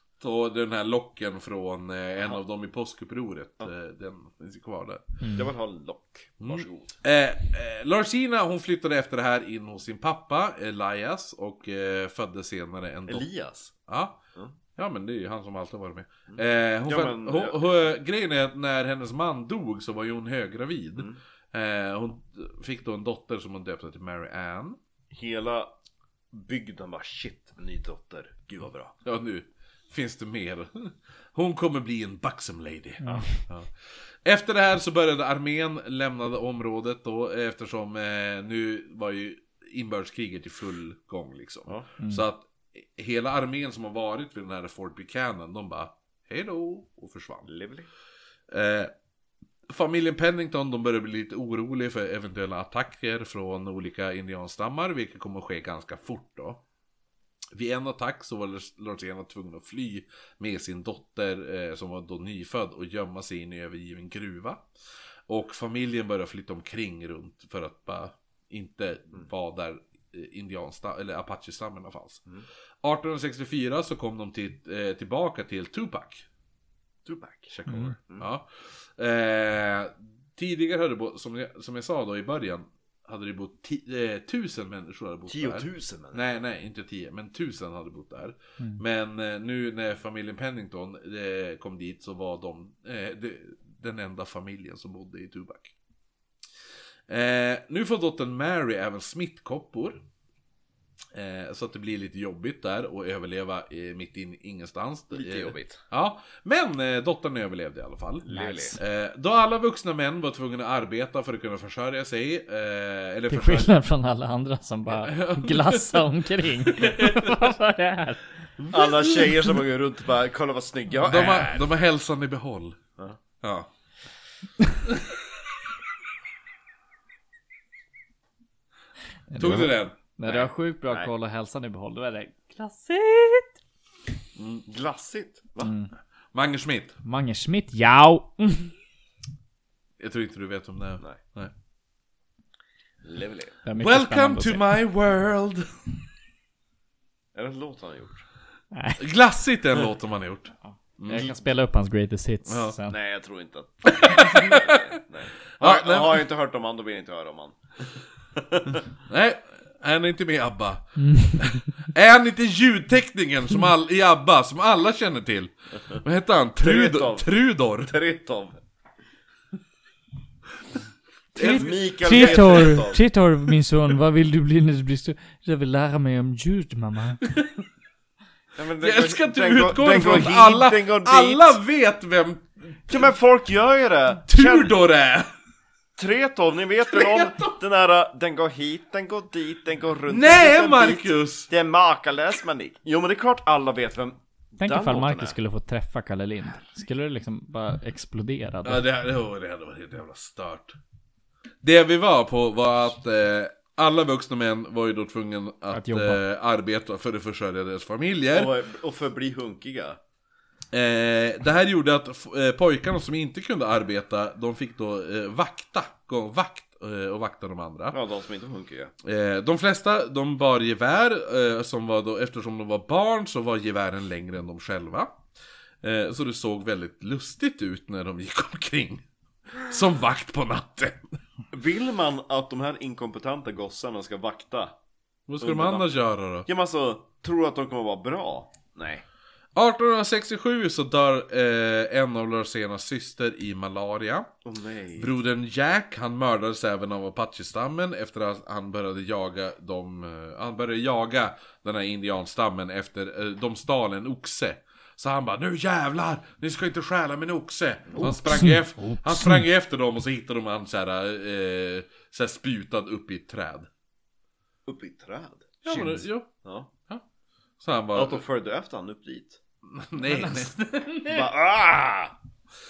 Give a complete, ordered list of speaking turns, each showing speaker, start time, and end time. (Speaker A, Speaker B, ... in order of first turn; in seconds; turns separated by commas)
Speaker A: 0.2-5.0, Speaker B: 5.2-5.5, Speaker C: 5.3-7.0, Speaker A: 6.4-13.3, Speaker C: 13.1-13.7, Speaker A: 13.9-14.2, Speaker A: 14.8-24.8, Speaker C: 16.3-17.7, Speaker C: 25.1-25.7, Speaker C: 26.3-28.9, Speaker A: 29.1-47.5, Speaker B: 33.0-33.4, Speaker B: 42.0-42.2, Speaker C: 47.5-47.9, Speaker A: 48.5-48.9, Speaker A: 49.7-56.6, Speaker A: 57.5-64.6, Speaker A: 65.3-72.2, Speaker A: 72.8-76.3, Speaker C: 77.1-78.3, Speaker A: 77.5-95.7, Speaker B: 77.7-77.9, Speaker C: 85.3-86.2, Speaker A: 97.1-100.0, Speaker A: 101.1-113.7, Speaker C: 105.1-105.8, Speaker C: 108.2-108.8, Speaker B: 108.3-108.8, Speaker B: 113.3-118.2, Speaker A: 115.0-117.4, Speaker A: 118.6-119.4, Speaker C: 118.7-121.6, Speaker A: 121.0-122.8, Speaker A: 123.4-123.7, Speaker A: 124.9-125.5, Speaker B: 129.3-133.6, Speaker A: 129.3-130.0, Speaker C: 130.2-131.1, Speaker A: 134.4-134.6, Speaker C: 134.7-135.7, Speaker B: 135.6-135.9, Speaker A: 136.3-136.9, Speaker B: 137.0-138.7, Speaker A: 140.0-141.5, Speaker C: 143.0-143.6, Speaker B: 143.7-144.7, Speaker A: 143.8-145.7, Speaker C: 147.3-148.2, Speaker B: 148.7-149.0, Speaker A: 149.0-151.3, Speaker B: 151.0-153.0, Speaker A: 152.5-152.8, Speaker C: 152.9-157.6, Speaker A: 154.0-154.9, Speaker A: 155.6-156.3, Speaker C: 158.3-158.9, Speaker A: 159.1-167.9, Speaker B: 161.0-161.6, Speaker C: 166.6-168.6, Speaker C: 171.3-173.0, Speaker B: 171.3-177.2, Speaker A: 171.4-172.8, Speaker A: 177.2-177.6, Speaker C: 178.6-181.6, Speaker A: 178.8-183.1, Speaker C: 182.9-184.7, Speaker A: 184.3-185.3, Speaker C: 186.0-195.4, Speaker A: 186.9-187.6, Speaker A: 190.1-191.5, Speaker B: 194.6-198.8, Speaker A: 198.6-200.8, Speaker A: 201.6-208.5, Speaker B: 205.7-206.2, Speaker C: 208.3-210.0, Speaker A: 210.7-218.0, Speaker C: 217.9-218.9, Speaker A: 219.0-225.2, Speaker A: 225.8-229.1, Speaker A: 229.6-231.1, Speaker C: 231.5-234.8, Speaker A: 235.3-236.5, Speaker C: 235.4-235.9, Speaker C: 236.5-239.0, Speaker A: 239.6-244.3, Speaker C: 244.4-245.2, Speaker A: 245.0-263.7, Speaker C: 257.9-258.2, Speaker B: 258.0-259.4, Speaker C: 264.7-266.7, Speaker A: 265.6-266.3, Speaker A: 267.6-268.2, Speaker C: 267.9-269.4, Speaker A: 269.7-271.0, Speaker B: 270.0-271.2, Speaker C: 271.1-272.1